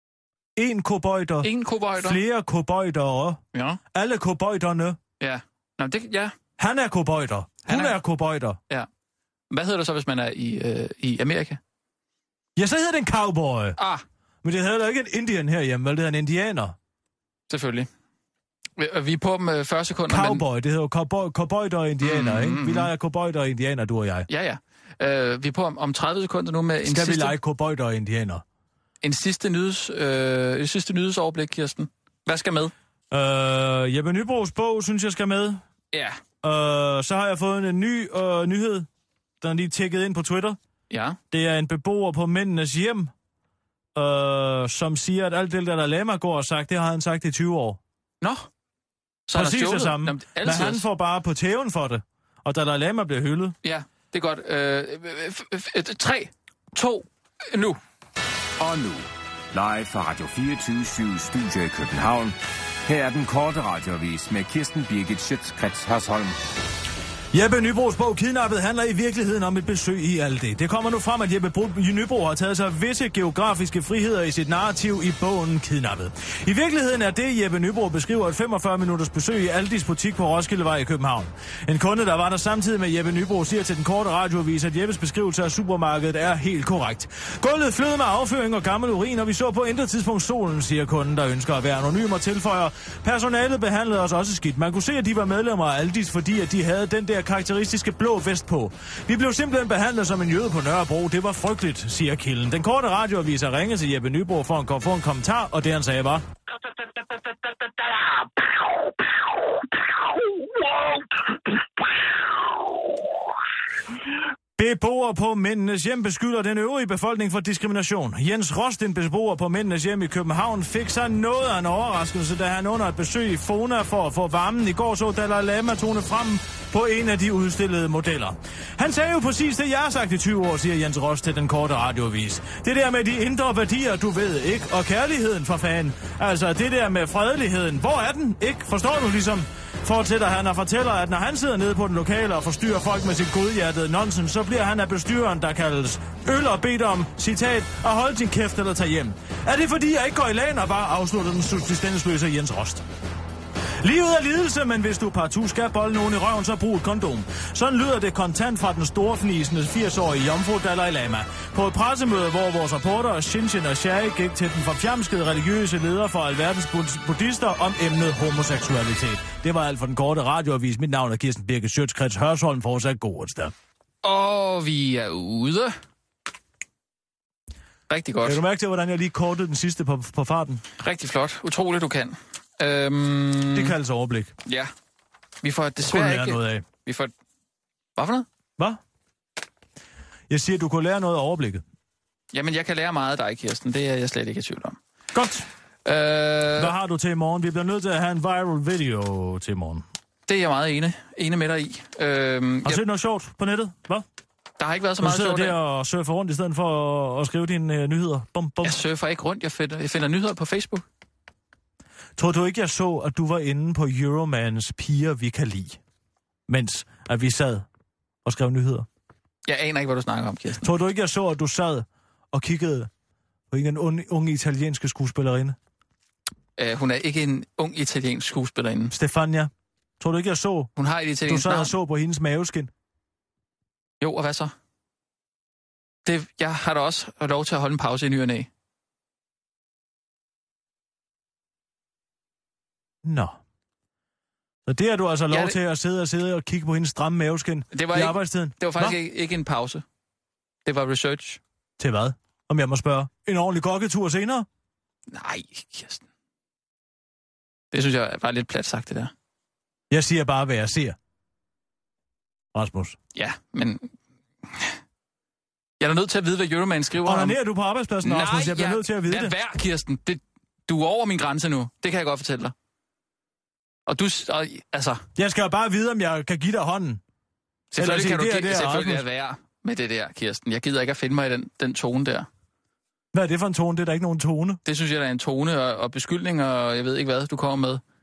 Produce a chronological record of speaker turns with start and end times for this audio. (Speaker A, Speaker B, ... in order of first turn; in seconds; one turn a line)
Speaker A: 0.6-3.4
Speaker B: 1.4-2.2
Speaker B: 3.5-3.8
Speaker A: 3.9-5.0
Speaker B: 5.2-6.3
Speaker A: 6.6-8.6
Speaker B: 7.7-8.0
Speaker B: 9.5-11.6
Speaker A: 12.6-13.8
Speaker B: 13.8-14.0
Speaker A: 14.4-16.8
Speaker B: 17.5-17.9
Speaker B: 18.8-20.4
Speaker A: 20.1-24.3
Speaker B: 22.0-22.9
Speaker B: 24.3-27.3
Speaker A: 26.8-28.4
Speaker B: 29.0-32.7
Speaker A: 33.1-35.6
Speaker B: 35.9-36.2
Speaker A: 36.4-38.9
Speaker A: 39.4-40.6
Speaker B: 40.9-41.2
Speaker A: 41.3-43.1
Speaker A: 43.9-47.8
Speaker B: 48.2-48.5
Speaker B: 49.3-50.9
Speaker A: 49.3-53.5
Speaker B: 53.6-57.8
Speaker C: 58.6-66.4
Speaker A: 67.3-106.2
Speaker A: 114.6-152.8
Speaker A: 153.8-173.5
Speaker B: 174.0-175.8
Speaker B: 177.9-178.4
Speaker A: 178.2-180.6
Speaker B: 180.8-183.7
Speaker A: 183.5-184.3
Speaker B: 184.4-184.7
Speaker B: 185.4-187.1
Speaker A: 185.8-186.7
Speaker B: 187.9-188.3
Speaker A: 190.3-191.6
Speaker B: 192.3-194.8
Speaker A: 195.1-195.5
Speaker B: 195.8-196.7
Speaker A: 196.6-199.8
Speaker B: 200.3-202.8
Speaker A: 202.6-204.0
Speaker B: 204.6-205.6
Speaker A: 205.0-208.8
Speaker B: 208.6-210.8
Speaker A: 212.2-215.8
Speaker A: 216.5-217.7
Speaker A: 218.2-218.9
Speaker B: 219.5-220.7
Speaker A: 220.6-222.9
Speaker A: 223.5-225.6
Speaker B: 226.6-228.9
Speaker A: 228.9-230.7
Speaker B: 230.8-231.7
Speaker A: 231.2-232.7
Speaker B: 234.0-234.5
Speaker B: 236.0-238.5
Speaker A: 243.0-243.4
Speaker A: 244.7-249.0
Speaker B: 245.3-245.6
Speaker B: 247.7-249.8
Speaker B: 250.6-251.4
Speaker A: 251.8-254.5
Speaker B: 255.1-256.0
Speaker B: 257.7-259.1
Speaker A: 259.9-261.0
Speaker A: 262.5-263.0
Speaker B: 263.1-263.9
Speaker B: 265.8-267.4
Speaker A: 267.0-269.3
Speaker B: 268.0-272.5
Speaker B: 273.9-275.0
Speaker A: 275.2-277.0
Speaker B: 277.7-282.3
Speaker A: 277.8-279.0
Speaker A: 283.1-284.6
Speaker B: 284.6-287.8